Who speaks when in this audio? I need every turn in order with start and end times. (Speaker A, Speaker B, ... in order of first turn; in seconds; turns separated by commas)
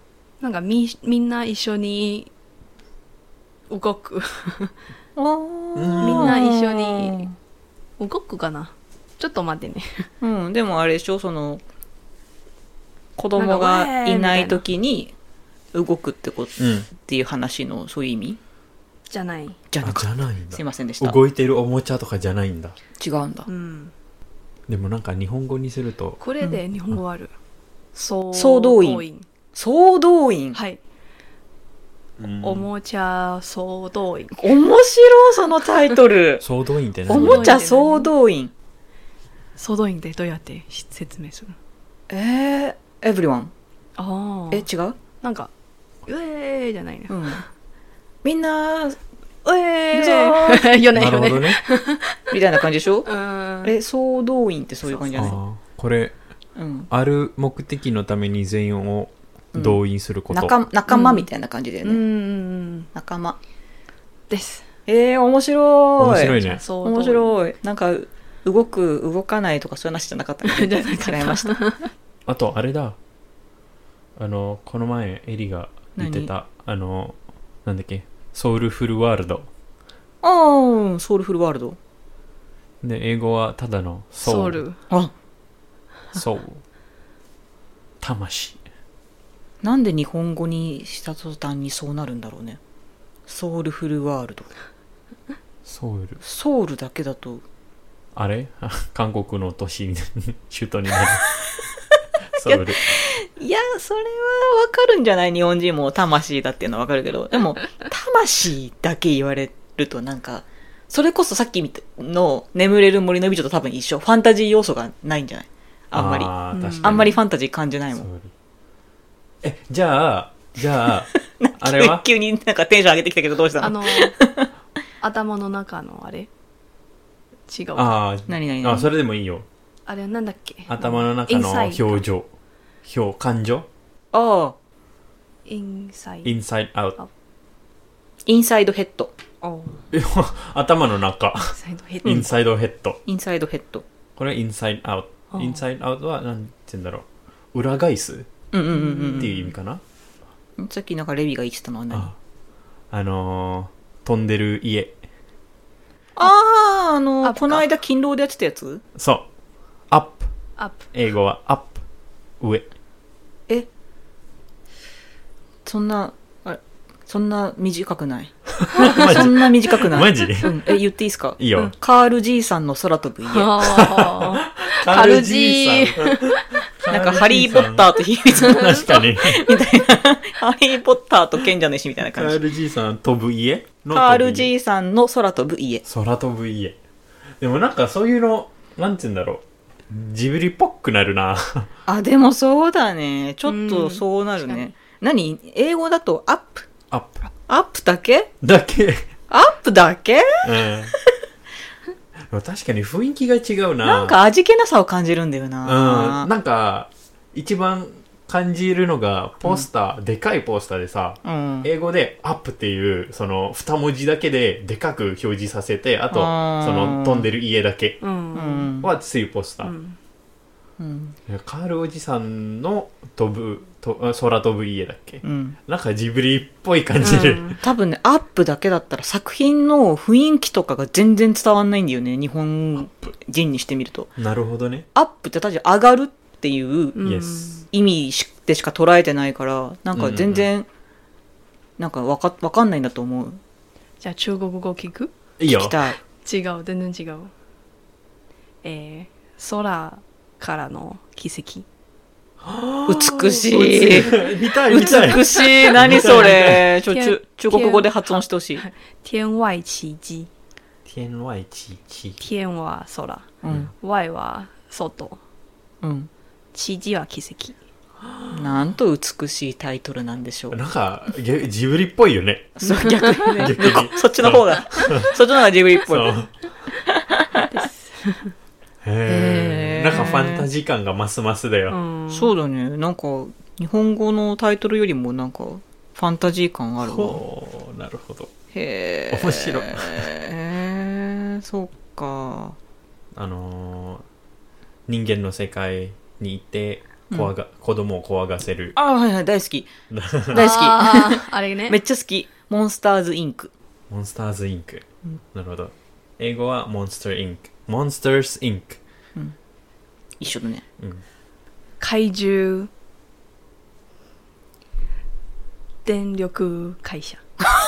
Speaker A: 0.4-2.3, Speaker A: 3.7-4.8, Speaker B: 5.2-7.3, Speaker C: 5.8-6.4, Speaker A: 6.0-7.3, Speaker A: 8.0-10.1, Speaker B: 10.2-11.6, Speaker B: 13.2-15.1, Speaker A: 13.4-14.6, Speaker B: 15.7-18.4, Speaker C: 16.6-16.9, Speaker A: 19.1-19.6, Speaker B: 19.7-21.2, Speaker C: 19.8-22.8, Speaker B: 23.0-23.5, Speaker A: 23.5-23.9, Speaker C: 24.7-26.2, Speaker A: 26.2-27.3, Speaker A: 27.9-29.3, Speaker B: 28.3-29.0, Speaker B: 29.6-30.6, Speaker A: 30.5-30.8, Speaker C: 32.2-32.7, Speaker A: 32.4-34.5, Speaker B: 34.4-36.5, Speaker C: 36.4-37.6, Speaker B: 37.1-38.5, Speaker A: 37.1-38.1, Speaker A: 39.6-41.6, Speaker B: 42.1-43.5, Speaker A: 44.0-44.7, Speaker B: 44.5-45.0, Speaker A: 45.2-45.5, Speaker A: 46.1-47.4, Speaker B: 47.1-47.4, Speaker B: 48.2-49.0, Speaker A: 49.5-52.4, Speaker B: 49.9-50.7, Speaker C: 50.9-51.6, Speaker B: 52.3-53.1, Speaker A: 53.0-53.7, Speaker B: 53.6-55.4, Speaker A: 54.9-55.3, Speaker C: 55.1-56.2, Speaker B: 56.6-56.9, Speaker C: 56.9-60.5, Speaker B: 59.5-62.0, Speaker A: 60.9-61.3, Speaker A: 61.8-62.9, Speaker B: 62.9-63.4, Speaker A: 64.3-64.7, Speaker B: 64.9-71.6, Speaker C: 66.0-66.6, Speaker A: 66.4-67.3, Speaker A: 70.4-71.9, Speaker C: 72.3-73.0, Speaker C: 74.2-79.5, Speaker B: 76.0-76.3, Speaker B: 80.2-81.8, Speaker C: 82.8-84.6, Speaker A: 84.2-84.8, Speaker C: 86.1-86.6, Speaker C: 88.0-88.6, Speaker B: 89.6-92.6, Speaker B: 93.3-94.5, Speaker C: 95.7-96.2, Speaker B: 96.2-97.4, Speaker C: 98.2-101.3, Speaker C: 102.3-102.9, Speaker B: 102.4-118.1, Speaker C: 115.9-117.2, Speaker A: 116.5-117.1, Speaker C: 118.0-118.3, Speaker C: 119.4-122.0, Speaker B: 121.2-124.5, Speaker A: 123.6-124.2, Speaker A: 125.0-126.3, Speaker A: 127.5-127.9, Speaker C: 127.8-129.4, Speaker B: 128.3-128.9, Speaker A: 129.9-132.0, Speaker C: 130.7-132.3, Speaker C: 132.8-133.7, Speaker B: 134.1-134.6, Speaker A: 135.5-136.3, Speaker C: 136.2-137.0, Speaker B: 138.3-139.1, Speaker A: 139.4-139.8, Speaker C: 139.9-143.0, Speaker A: 141.4-142.2, Speaker B: 143.1-143.8, Speaker C: 144.2-148.3, Speaker A: 145.3-145.6, Speaker B: 148.5-149.4, Speaker C: 149.1-149.8, Speaker B: 150.6-152.1, Speaker C: 152.9-155.0, Speaker B: 156.2-158.8, Speaker A: 157.2-157.7, Speaker C: 158.9-159.3, Speaker C: 159.9-160.3, Speaker A: 160.6-160.9, Speaker C: 160.9-161.8, Speaker C: 162.4-162.7, Speaker B: 165.7-173.8, Speaker C: 168.6-170.6, Speaker A: 168.8-169.0, Speaker C: 171.4-171.7, Speaker A: 173.3-176.6, Speaker C: 173.6-179.4, Speaker B: 176.9-182.4, Speaker C: 182.2-184.5, Speaker B: 183.9-185.8, Speaker C: 185.8-186.8, Speaker C: 187.4-191.7, Speaker B: 191.9-196.7, Speaker A: 193.5-194.7, Speaker C: 196.9-197.2, Speaker B: 197.5-198.3, Speaker C: 198.4-199.1, Speaker B: 199.3-201.0, Speaker C: 200.4-200.9, Speaker C: 202.3-204.2, Speaker B: 203.8-206.3, Speaker C: 205.6-218.0, Speaker B: 211.2-211.7, Speaker B: 216.1-217.3, Speaker A: 218.0-218.7, Speaker B: 218.3-218.9, Speaker C: 218.8-219.7, Speaker A: 219.6-220.0, Speaker B: 220.8-221.2, Speaker C: 221.3-227.6, Speaker B: 225.2-225.6, Speaker A: 227.0-227.6, Speaker B: 227.6-234.1, Speaker C: 234.2-234.9, Speaker B: 234.9-237.1, Speaker A: 236.9-237.7, Speaker C: 237.0-237.5, Speaker B: 237.7-240.7, Speaker C: 239.9-240.5, Speaker B: 241.8-243.4, Speaker A: 244.0-245.1, Speaker C: 245.4-245.8, Speaker B: 245.5-246.0, Speaker A: 246.2-247.3, Speaker A: 248.6-251.7, Speaker C: 252.4-256.8, Speaker B: 252.9-258.6, Speaker A: 255.2-256.1, Speaker A: 256.9-260.3, Speaker C: 260.9-262.2, Speaker A: 262.2-265.2, Speaker B: 263.4-263.7, Speaker B: 265.8-266.1, Speaker A: 266.5-267.6, Speaker B: 268.3-270.6, Speaker C: 270.5-272.6, Speaker B: 272.6-276.2, Speaker A: 272.7-273.5, Speaker C: 273.3-275.1, Speaker C: 275.9-276.3, Speaker B: 276.9-277.5, Speaker A: 277.5-278.3, Speaker C: 278.8-281.8, Speaker B: 279.1-280.5, Speaker A: 281.7-282.3, Speaker B: 282.1-287.2, Speaker C: 286.8-288.3, Speaker B: 288.5-292.6, Speaker C: 289.1-290.1, Speaker C: 293.1-294.0, Speaker C: 294.9-298.8, Speaker B: 298.8-299.7, Speaker C: 299.9-300.4, Speaker B: 300.3-303.5, Speaker A: 300.3-301.8, Speaker C: 303.9-308.8, Speaker B: 310.2-310.6, Speaker A: 311.8-312.7, Speaker A: 315.9-317.2